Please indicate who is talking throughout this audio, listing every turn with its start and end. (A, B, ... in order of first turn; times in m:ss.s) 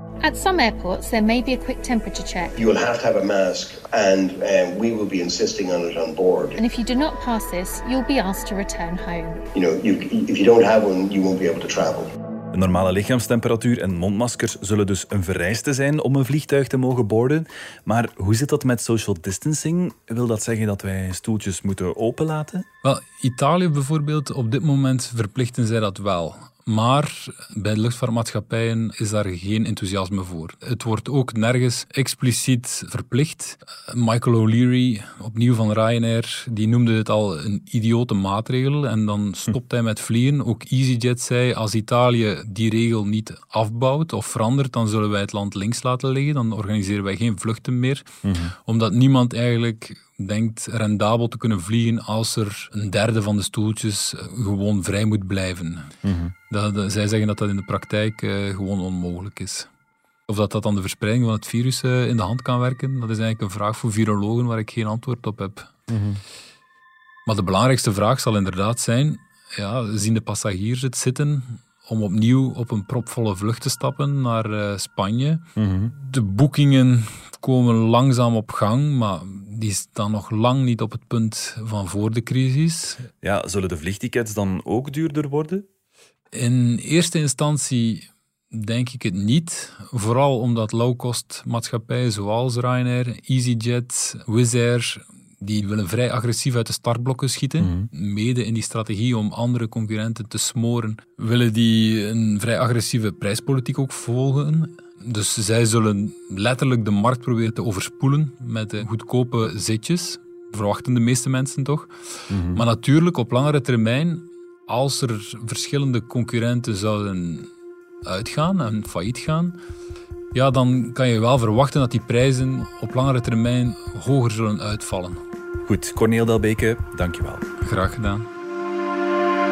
0:00.2-0:02.6 A
0:02.6-0:06.6 B
0:06.6-0:09.4 A
0:09.5-0:12.1 B
0:12.5-0:22.6 C
0:22.8-0:48.1 D
0:48.2-0:48.5 C
0:48.6-0:55.9 D
0:56.0-0:56.3 C
0:56.5-0:59.7 D
1:00.3-1:05.7 D
1:05.9-1:06.2 C
1:07.2-1:23.0 D
1:15.6-1:15.9 C
1:23.2-1:25.6 C
1:26.3-1:51.9 D
1:37.6-1:37.9 C
1:52.3-1:52.6 C
1:52.5-1:57.5 D
1:58.0-1:59.6 D
2:00.3-2:05.2 D
2:05.6-2:07.4 C
2:07.6-2:08.3 D